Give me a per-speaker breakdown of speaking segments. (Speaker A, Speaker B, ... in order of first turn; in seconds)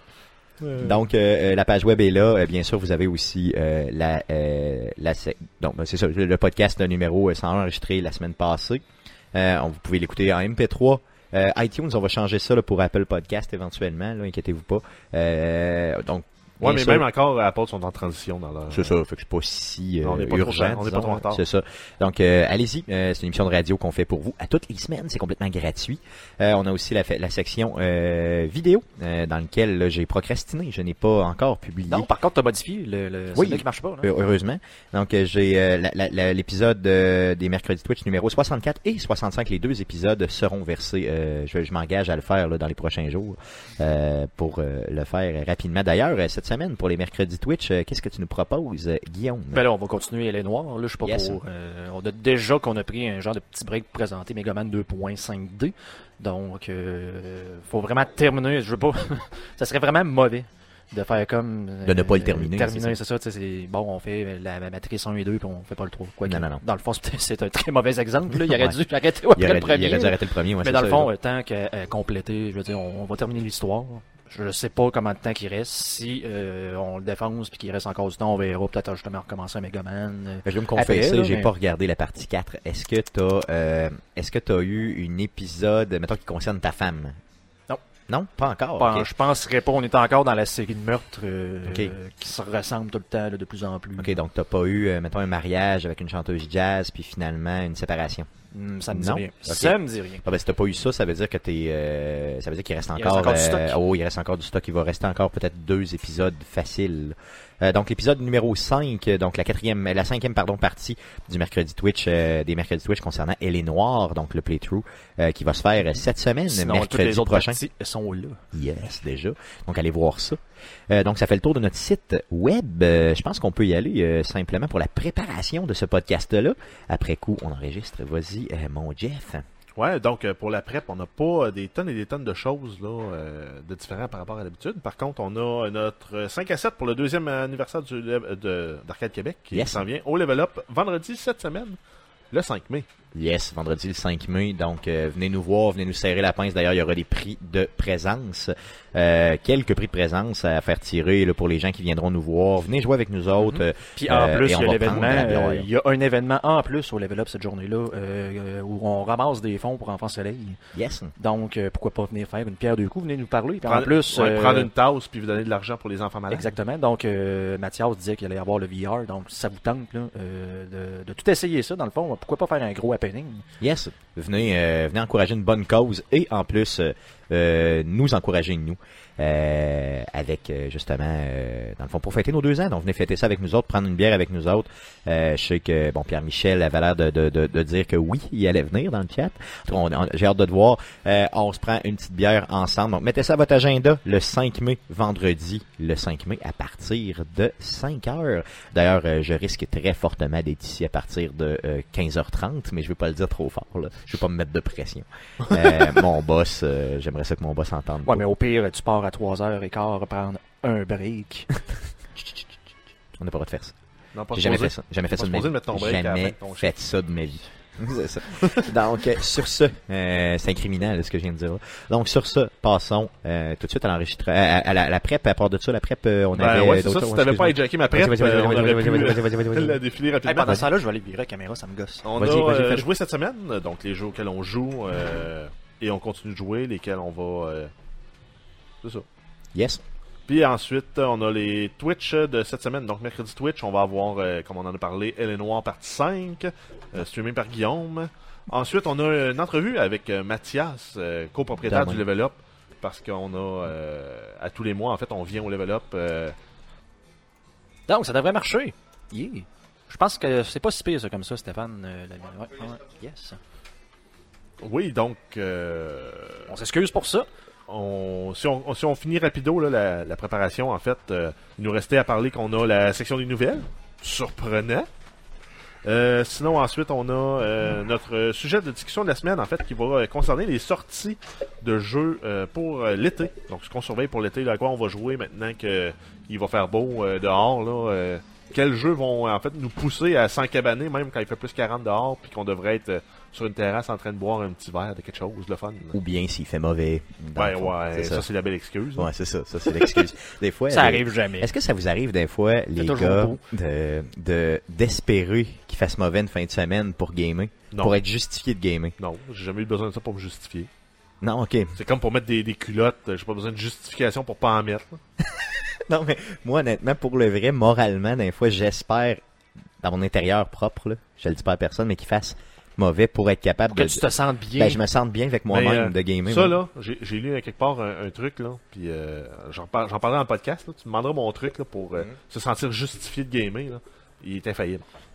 Speaker A: 0.6-1.0, 16.6-18.9, 20.0-21.4, 129.8-141.8, 142.3-142.9, 163.7-166.5, 214.1-216.7, 218.3-218.7, 226.3-230.6, 232.0-237.7, 240.3-256.4, 264.6-266.5, 267.7-274.9, 275.8-296.0, 297.4-299.1, 307.7-308.0, 309.0-310.7, 311.8-315.0, 325.5-334.8
Speaker B: 0.8-8.8, 9.3-17.1, 18.7-32.1, 33.3-49.6, 51.0-51.4, 61.8-63.0, 66.2-66.6, 68.4-68.8, 69.3-71.1, 80.4-87.2, 88.1-89.1, 91.7-91.9, 94.0-98.3, 98.9-117.6, 118.5-120.4, 120.9-129.4, 139.5-139.8, 143.1-155.7, 160.7-161.1, 173.6-208.2, 213.2-213.8, 214.3-229.8, 232.2-232.5, 239.5-239.8, 251.6-252.0, 295.9-298.2, 299.0-308.9, 311.2-311.8, 315.4-319.2, 319.8-326.6
Speaker C: 31.9-34.1, 49.5-81.5, 88.8-94.1, 98.5-100.2, 103.0-103.8, 116.5-118.4, 153.4-160.6, 161.2-164.7, 166.3-173.4, 208.1-211.5, 230.2-232.9, 257.9-263.4, 266.5-267.2, 300.7-301.5, 302.8-303.4, 323.7-324.8